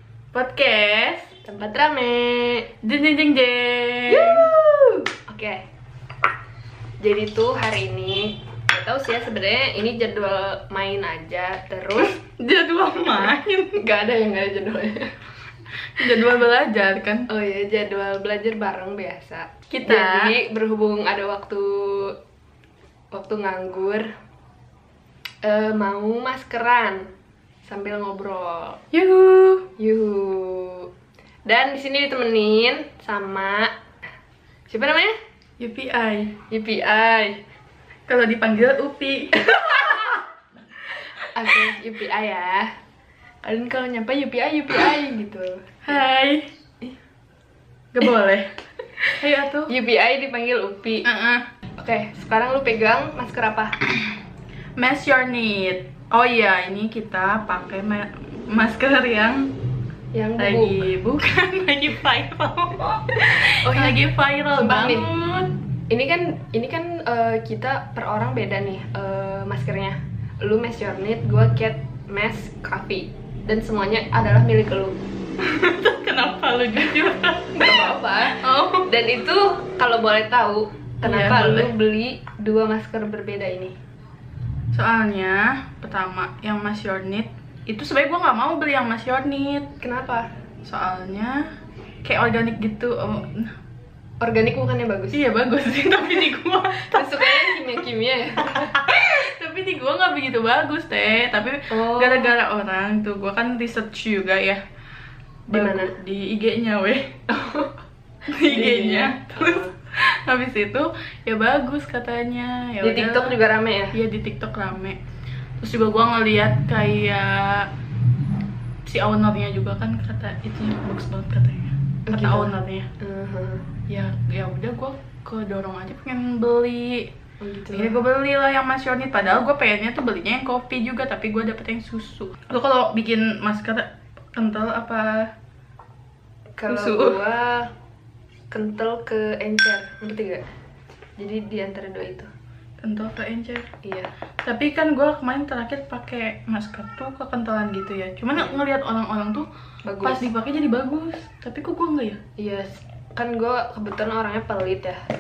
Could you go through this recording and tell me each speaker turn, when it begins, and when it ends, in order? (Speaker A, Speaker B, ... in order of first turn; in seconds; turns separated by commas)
Speaker A: 0.3-1.3, Speaker B: 1.4-2.7, Speaker A: 2.8-4.5, Speaker B: 4.1-5.6, Speaker B: 7.0-12.2, Speaker A: 11.9-13.8, Speaker B: 13.2-15.1, Speaker A: 15.9-17.3, Speaker B: 17.3-22.1, Speaker A: 19.7-20.3, Speaker B: 23.1-24.1, Speaker B: 25.4-27.1, Speaker B: 27.6-28.8, Speaker A: 28.9-29.7, Speaker B: 29.8-30.9, Speaker B: 31.4-33.7, Speaker B: 34.7-35.1, Speaker A: 35.6-36.4, Speaker B: 36.5-37.4, Speaker A: 38.1-40.2, Speaker B: 39.5-40.1, Speaker B: 41.3-42.7, Speaker B: 43.4-45.8, Speaker A: 45.8-46.5, Speaker A: 47.9-48.5, Speaker B: 49.0-51.1, Speaker A: 49.2-49.7, Speaker A: 51.0-51.5, Speaker B: 51.8-53.7, Speaker A: 54.8-59.5, Speaker B: 60.1-60.9, Speaker A: 60.4-65.5, Speaker B: 63.1-64.0, Speaker B: 64.5-65.2, Speaker B: 65.9-74.9, Speaker A: 75.4-78.9, Speaker B: 77.5-83.7, Speaker A: 81.0-81.7, Speaker A: 84.7-89.7, Speaker B: 89.8-90.3, Speaker A: 90.6-91.4, Speaker A: 92.0-93.5, Speaker B: 94.2-95.2, Speaker A: 95.1-97.8, Speaker B: 96.7-98.7, Speaker A: 98.4-104.6, Speaker B: 101.7-102.3, Speaker A: 105.5-107.2, Speaker B: 105.5-105.9, Speaker B: 107.3-107.7, Speaker A: 108.3-113.4, Speaker B: 108.3-109.7, Speaker B: 112.8-114.0, Speaker A: 113.9-115.0, Speaker A: 115.6-117.7, Speaker A: 118.8-122.9, Speaker B: 122.1-123.7, Speaker A: 123.9-127.1, Speaker B: 127.4-128.0, Speaker A: 127.7-135.3, Speaker B: 136.6-137.7, Speaker A: 136.7-137.2, Speaker B: 138.5-140.4, Speaker B: 141.2-142.3, Speaker A: 142.8-143.7, Speaker B: 143.8-144.1, Speaker A: 144.4-149.5, Speaker B: 149.8-150.3, Speaker A: 150.0-152.2, Speaker B: 152.4-155.0